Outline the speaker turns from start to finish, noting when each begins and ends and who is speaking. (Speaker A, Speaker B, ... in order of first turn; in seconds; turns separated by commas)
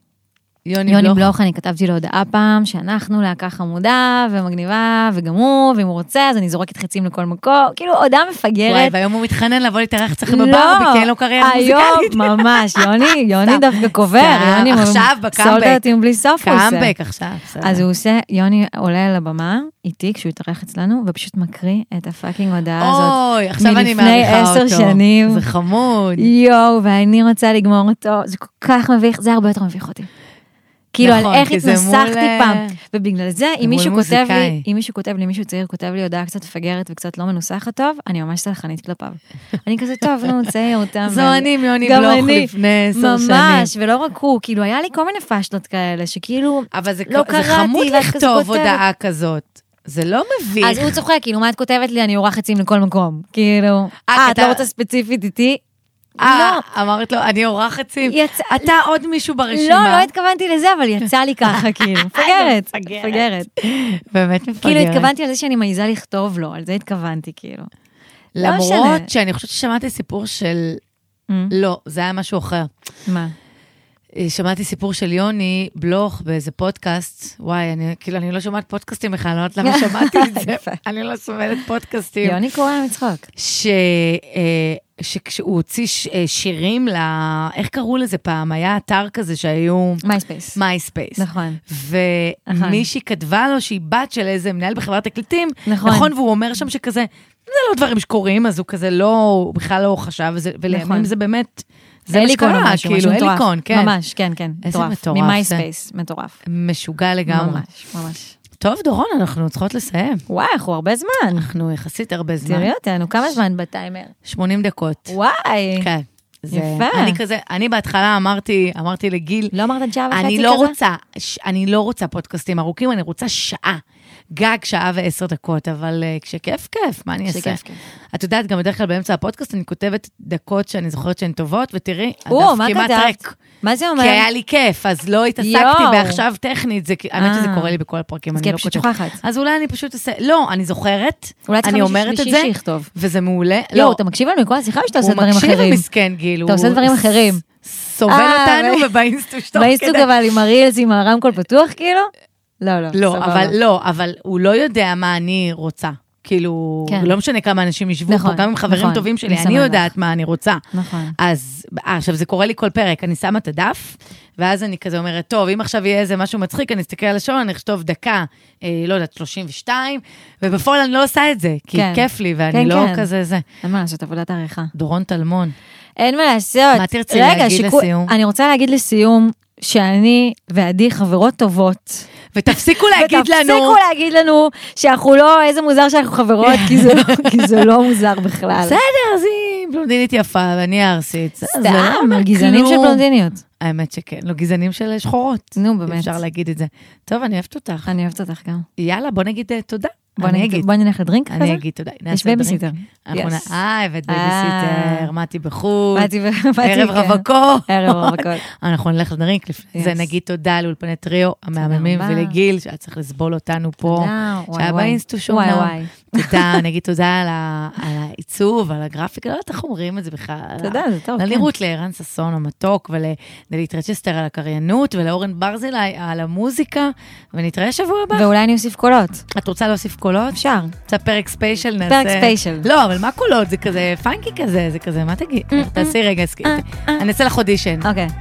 Speaker A: 0.6-1.3, Speaker B: 0.8-8.9, Speaker A: 8.7-15.8, Speaker B: 10.3-16.9, Speaker A: 16.4-17.8, Speaker B: 17.6-25.4, Speaker A: 22.8-26.3, Speaker B: 26.2-30.1, Speaker B: 30.9-48.8, Speaker A: 31.0-32.7, Speaker A: 33.6-34.6, Speaker A: 41.0-43.7, Speaker A: 46.7-51.0, Speaker B: 50.6-55.6, Speaker A: 54.1-54.6, Speaker B: 56.2-56.6, Speaker A: 56.2-60.1, Speaker B: 58.0-58.7, Speaker B: 59.5-63.5, Speaker A: 61.5-65.1, Speaker B: 64.6-67.7, Speaker A: 68.3-70.8, Speaker B: 68.4-69.1, Speaker B: 71.3-71.5, Speaker A: 71.5-72.7, Speaker B: 73.1-73.3, Speaker A: 74.2-82.4, Speaker B: 79.6-80.8, Speaker B: 82.2-83.3, Speaker A: 83.3-90.0, Speaker B: 90.0-90.6, Speaker A: 90.5-103.9, Speaker B: 91.2-91.6, Speaker B: 92.5-92.8, Speaker B: 95.7-96.1, Speaker B: 100.7-101.1, Speaker B: 102.1-106.4, Speaker A: 104.6-105.6, Speaker A: 106.5-107.6, Speaker B: 107.3-108.3, Speaker A: 108.6-110.2, Speaker B: 110.3-111.5, Speaker A: 111.3-112.7, Speaker B: 112.4-114.1, Speaker A: 114.2-115.1, Speaker B: 115.1-115.9, Speaker A: 115.8-119.5, Speaker B: 116.5-117.2, Speaker B: 119.5-120.8, Speaker A: 120.1-123.8, Speaker A: 124.3-127.6, Speaker B: 127.3-127.8, Speaker A: 128.1-133.4, Speaker B: 132.3-134.3, Speaker A: 134.0-144.0, Speaker B: 135.4-136.2, Speaker B: 137.2-137.7, Speaker B: 138.3-139.2, Speaker B: 141.5-142.9, Speaker B: 143.7-145.8, Speaker A: 144.9-150.1, Speaker B: 146.4-147.4, Speaker B: 148.1-148.9, Speaker B: 149.5-152.1, Speaker B: 152.6-153.6, Speaker A: 152.9-160.6, Speaker B: 156.9-157.1, Speaker B: 158.1-159.9, Speaker B: 160.7-161.2, Speaker A: 161.2-173.4, Speaker B: 171.7-173.1, Speaker B: 173.6-174.7, Speaker A: 174.7-175.5, Speaker B: 176.0-188.8, Speaker A: 176.7-178.1, Speaker A: 182.3-183.8, Speaker A: 186.4-187.7, Speaker A: 188.6-193.0, Speaker B: 191.4-193.4, Speaker A: 193.6-197.9, Speaker B: 195.6-196.2, Speaker B: 197.9-198.7, Speaker A: 198.8-200.7, Speaker B: 200.2-203.5, Speaker A: 201.3-206.1, Speaker B: 204.1-205.1, Speaker B: 205.9-208.4, Speaker A: 206.6-228.3, Speaker B: 209.7-210.1, Speaker B: 211.6-212.3, Speaker B: 213.8-216.6, Speaker B: 220.6-221.5, Speaker B: 228.1-229.2, Speaker A: 229.3-237.9, Speaker B: 230.3-230.7, Speaker B: 231.9-232.7, Speaker B: 235.5-237.1, Speaker B: 237.8-238.1